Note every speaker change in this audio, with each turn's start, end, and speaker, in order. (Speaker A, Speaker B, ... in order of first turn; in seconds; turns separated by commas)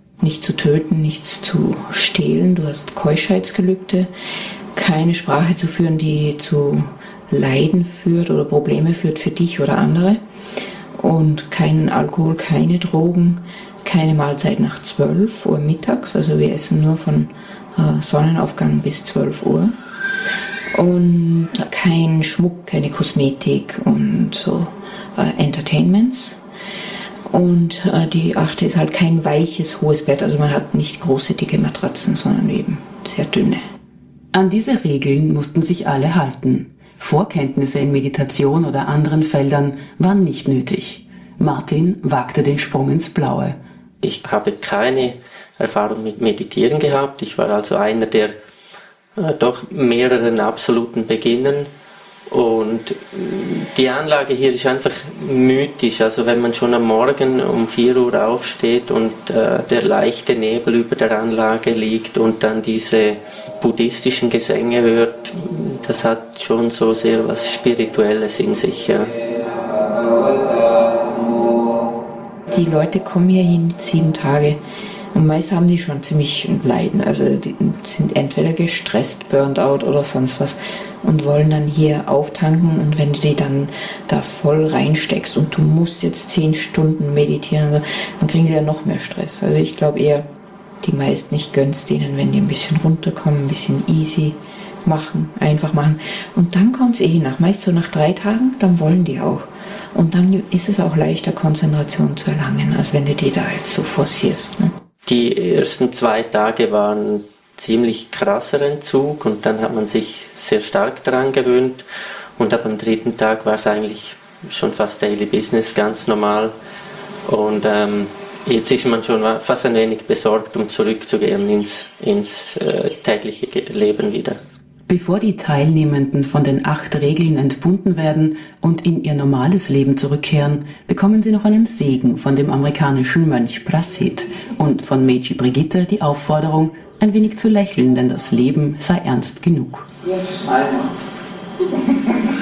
Speaker A: 0.2-4.1, Speaker A: 4.8-10.2, Speaker A: 11.0-19.8, Speaker A: 20.7-26.4, Speaker A: 27.3-33.6, Speaker B: 34.3-43.6, Speaker C: 44.0-48.3, Speaker C: 49.1-51.7, Speaker C: 52.3-69.1, Speaker A: 72.5-74.6, Speaker A: 75.1-90.2, Speaker A: 90.8-104.7, Speaker C: 105.1-111.8, Speaker C: 112.4-116.5, Speaker C: 117.2-124.4, Speaker B: 124.9-139.9, Speaker A: 140.0-140.9